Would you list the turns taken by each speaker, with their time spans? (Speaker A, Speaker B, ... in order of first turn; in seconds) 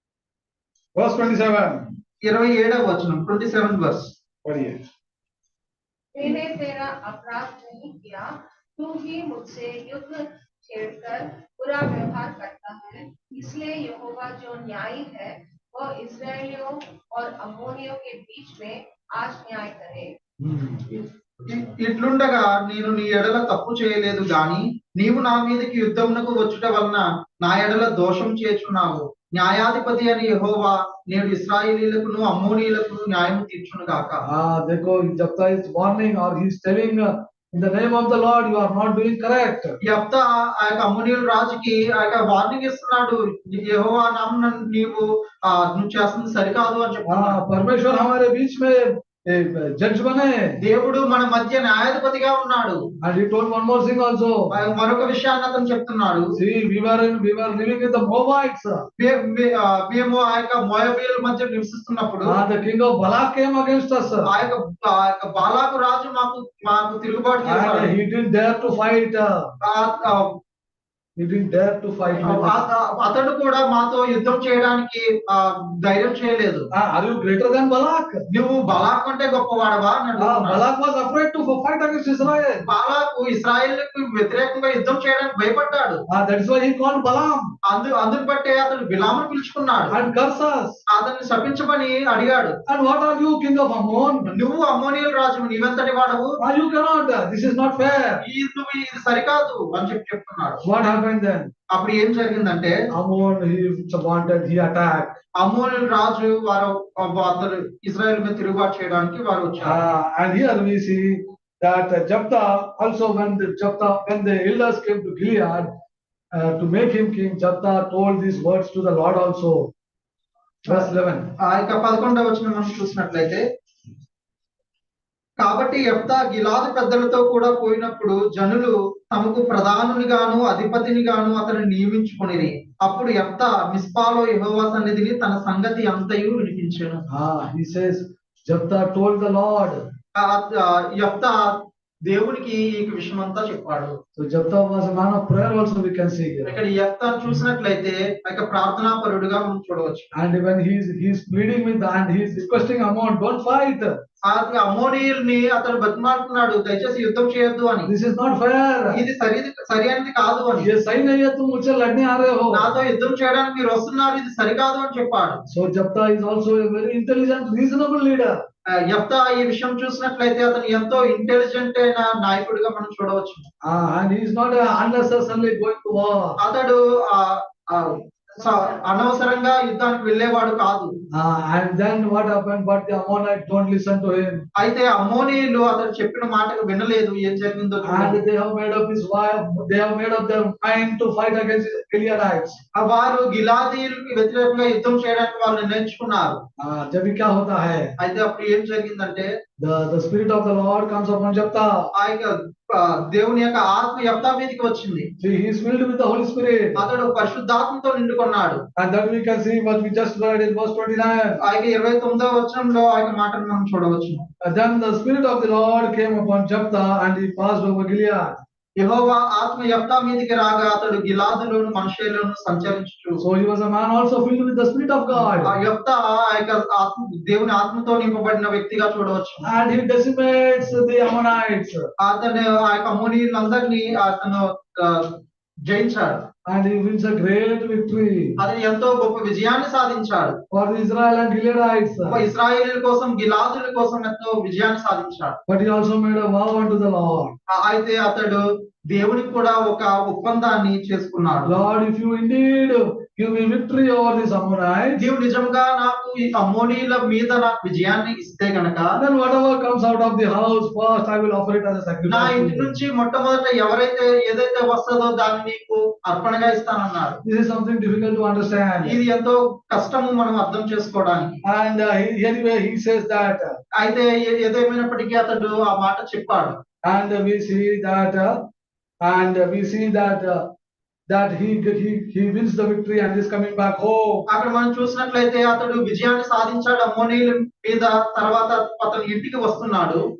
Speaker A: 0.9-1.9, 4.4-4.8, 20.4-21.5, 34.2-39.8, 47.0-50.5, 53.0-54.4, 56.4-58.8, 62.2-64.3, 67.4-69.5, 71.2-72.6, 76.7-78.2, 80.2-82.6, 86.1-87.5, 89.9-90.8, 92.7-94.3, 96.4-98.2, 100.6-101.5, 102.9-105.2, 109.6-115.7, 116.3-119.7, 120.7-121.3, 137.1-139.8, 144.2-146.6, 150.1-154.0, 157.8-159.0, 160.6-162.7, 165.5-168.4, 173.6-176.4, 181.1-184.4, 187.8-192.6, 196.6-197.9, 199.6-201.8, 205.2-206.8, 208.8-211.4, 214.4-218.4, 223.2-225.5, 229.4-231.9, 236.4-238.4, 240.5-242.2, 245.5-247.3, 251.4-255.0, 259.0-262.7, 267.2-269.0, 271.4-273.6, 276.8-278.3, 279.0-280.4, 281.1-284.2
Speaker B: 2.2-4.1, 21.5-34.2, 39.8-47.4, 50.6-52.8, 54.5-56.3, 59.0-62.4, 64.2-67.9, 69.7-70.3, 72.2-76.7, 78.3-80.6, 82.7-86.0, 87.7-90.0, 90.9-92.6, 94.3-96.3, 98.2-100.6, 101.7-102.8, 105.4-109.8, 120.7-123.4, 125.4-137.0, 140.2-144.0, 146.4-150.1, 154.2-157.9, 158.9-160.7, 162.5-165.4, 168.7-173.4, 176.4-180.9, 184.6-188.2, 192.8-196.4, 198.0-199.3, 201.9-205.1, 206.8-208.6, 211.4-214.2, 218.8-223.2, 225.4-229.4, 232.0-235.1, 235.7-236.2, 238.4-240.4, 242.1-245.4, 247.5-251.5, 255.0-258.9, 262.1-267.2, 268.8-271.4, 273.7-276.6, 284.3-290.0
Speaker C: 6.1-20.1